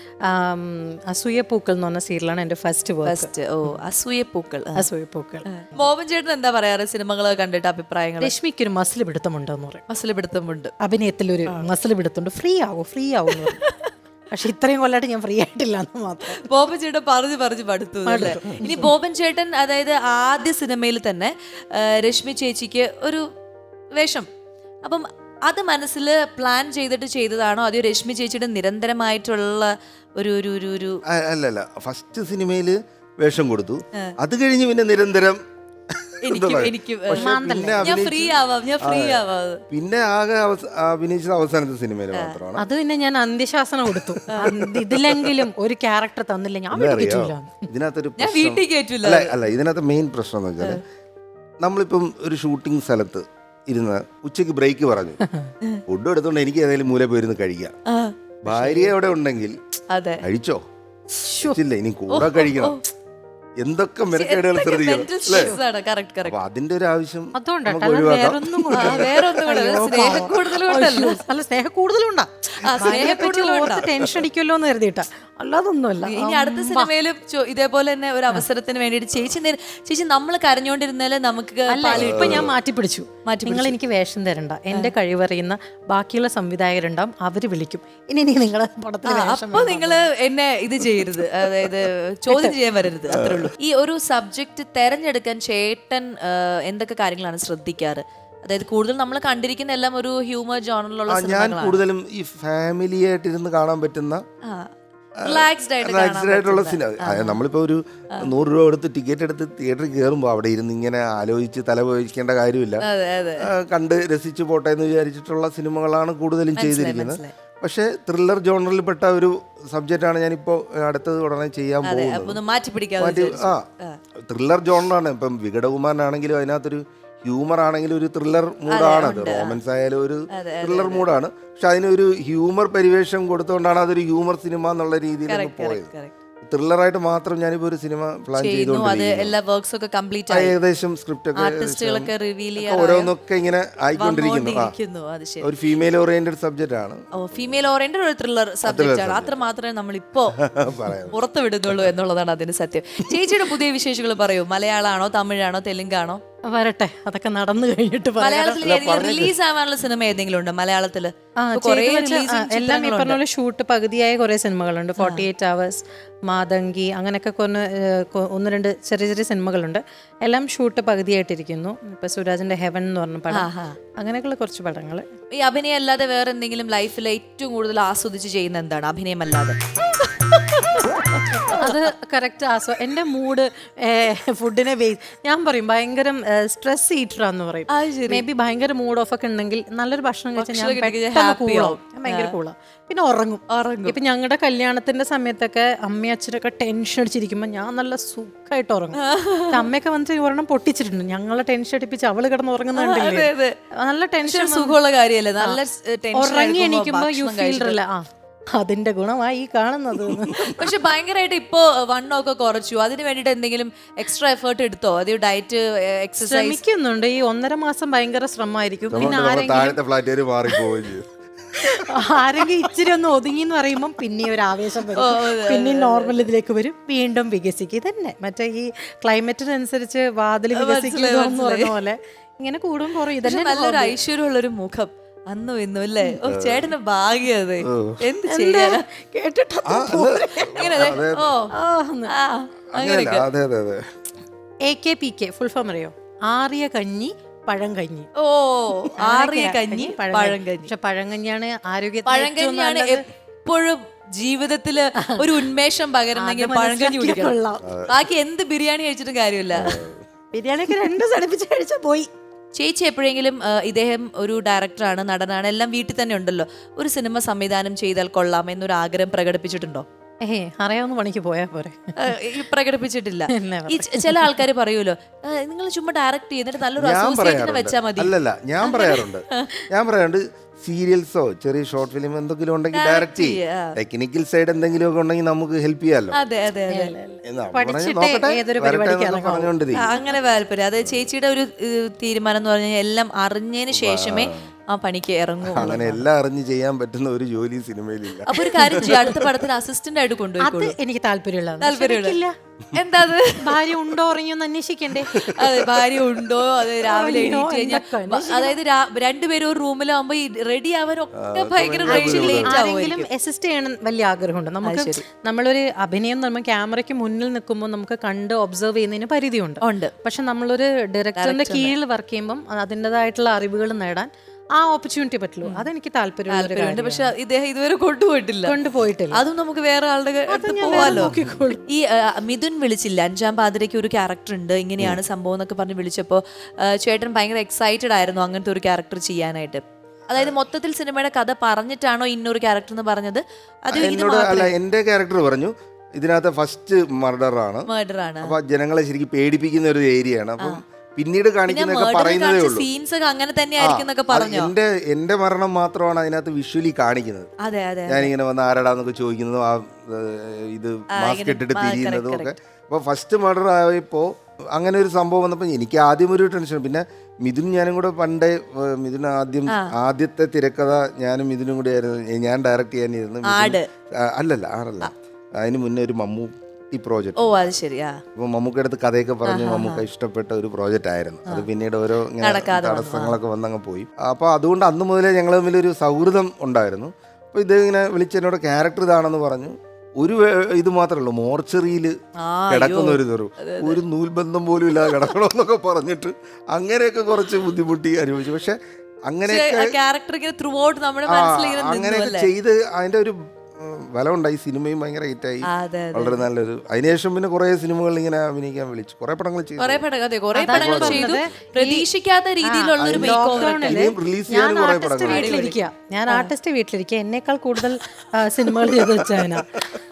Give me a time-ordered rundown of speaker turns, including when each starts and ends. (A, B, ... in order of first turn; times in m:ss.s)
0:00.3-0:03.3 A
0:03.0-0:04.8 B
0:04.8-0:05.8 A
0:05.5-0:08.3 B
0:08.2-0:09.8 A
0:09.9-0:10.7 B
0:10.8-0:13.6 A
0:14.3-0:16.4 A
0:16.5-0:23.2 B
0:18.0-0:18.9 A
0:23.9-0:24.3 B
0:24.8-0:31.0 B
0:31.1-0:35.4 C
0:35.9-0:42.6 C
0:36.2-0:39.6 B
0:37.1-0:38.0 A
0:42.6-0:47.7 A
0:44.3-0:44.8 B
0:46.7-0:50.8 C
0:48.2-0:49.4 B
0:51.6-0:55.2 C
0:55.9-0:57.7 C
0:57.9-0:58.9 B
0:58.4-0:59.6 C
0:59.9-1:00.2 B
1:00.2-1:00.6 C
1:01.2-1:01.6 A
1:01.4-1:02.8 C
1:02.1-1:02.8 B
1:03.6-1:05.5 C
1:04.1-1:06.4 B
1:05.3-1:05.6 A
1:06.2-1:09.1 C
1:07.3-1:16.9 A
1:08.7-1:11.2 B
1:12.6-1:13.9 B
1:12.7-1:14.0 C
1:16.0-1:22.5 B
1:21.7-1:30.1 A
1:21.9-1:22.5 C
1:23.2-1:23.7 B
1:29.0-1:41.8 B
1:33.1-1:33.5 C
1:41.1-1:44.2 C
1:45.2-1:47.4 B
1:45.2-1:52.8 C
1:52.8-1:53.5 B
1:53.4-2:02.4 C
1:56.6-1:57.3 B
2:01.8-2:04.0 B
2:03.0-2:03.6 C
2:04.2-2:15.9 C
2:08.7-2:09.6 B
2:10.3-2:11.1 B
2:15.3-2:16.1 B
2:16.4-2:19.3 C
2:18.4-2:20.6 B
2:20.3-2:24.7 C
2:21.4-2:23.1 B
2:24.0-2:25.5 B
2:25.4-2:27.6 C
2:27.2-2:30.4 B
2:28.6-2:29.4 C
2:30.4-2:31.2 C
2:31.1-2:36.2 B
2:36.5-2:38.6 A
2:38.2-2:43.2 B
2:38.6-2:39.3 C
2:41.4-2:55.0 A
2:45.0-2:45.2 B
2:53.3-2:53.8 B
2:55.4-2:59.6 B
3:00.5-3:01.7 B
3:01.5-3:23.3 A
3:07.7-3:08.2 B
3:10.4-3:12.3 B
3:13.5-3:14.0 B
3:19.0-3:19.6 B
3:22.8-3:23.5 B
3:23.8-3:24.8 A
3:24.2-3:27.8 B
3:26.1-3:28.0 A
3:28.6-3:30.5 A
3:30.5-3:36.6 B
3:36.2-3:39.8 A
3:38.9-3:41.1 C
3:38.9-3:39.2 B
3:41.6-3:54.0 A
3:44.9-3:46.1 B
3:50.6-3:51.7 B
3:53.2-3:58.8 B
3:56.2-3:56.7 C
3:57.6-3:58.0 C
3:58.3-4:00.9 A
3:59.7-4:01.3 C
4:00.6-4:01.5 B
4:01.5-4:02.1 A
4:02.2-4:03.2 B
4:02.7-4:03.8 C
4:04.6-4:08.1 A
4:08.2-4:10.7 B
4:09.0-4:13.0 A
4:12.0-4:17.4 B
4:15.0-4:15.4 A
4:16.1-4:17.6 A
4:17.6-4:18.0 C
4:17.9-4:19.8 B
4:19.5-4:20.0 C
4:20.3-4:22.1 A
4:22.5-4:29.8 B
4:30.2-4:32.1 A
4:32.0-4:39.6 B
4:33.3-4:34.4 A
4:36.8-4:46.2 C
4:42.8-4:43.7 B
4:46.2-4:46.9 B
4:46.7-4:49.5 A
4:47.3-4:49.9 C
4:49.8-4:55.9 B
4:53.7-4:54.5 C
4:55.5-4:59.2 C
4:55.7-4:56.0 A
4:58.2-5:00.7 B
4:58.6-4:59.1 A
5:00.4-5:02.3 A
5:01.6-5:02.2 B
5:02.8-5:03.6 B
5:03.4-5:05.3 A
5:05.1-5:13.1 B
5:05.1-5:06.0 C
5:06.8-5:08.6 A
5:11.2-5:12.6 C
5:11.8-5:27.1 A
5:14.6-5:15.0 B
5:19.6-5:19.9 B
5:21.2-5:21.7 B
5:25.4-5:25.7 B
5:26.3-5:28.6 B
5:28.4-5:29.2 A
5:29.1-5:31.1 B
5:30.3-5:31.6 A
5:30.8-5:31.4 C
5:31.7-5:44.5 B
5:43.7-5:47.7 C
5:47.7-5:48.3 B
5:48.2-5:52.7 C
5:51.5-5:54.5 B
5:53.6-5:57.3 C
5:57.4-5:58.1 B
5:57.9-6:17.3 C
6:01.0-6:02.3 B
6:13.3-6:13.7 B
6:17.2-6:18.0 B
6:18.1-6:32.0 C
6:19.3-6:19.8 B
6:22.2-6:23.2 B
6:32.2-6:33.8 B
6:32.5-6:39.7 C
6:39.2-6:42.3 B
6:41.1-6:49.8 C
6:45.5-6:46.2 B
6:49.6-6:53.8 B
6:50.3-6:51.8 A
6:50.5-6:51.2 C
6:52.4-6:59.6 A
6:52.8-6:55.5 C
6:55.0-6:55.6 B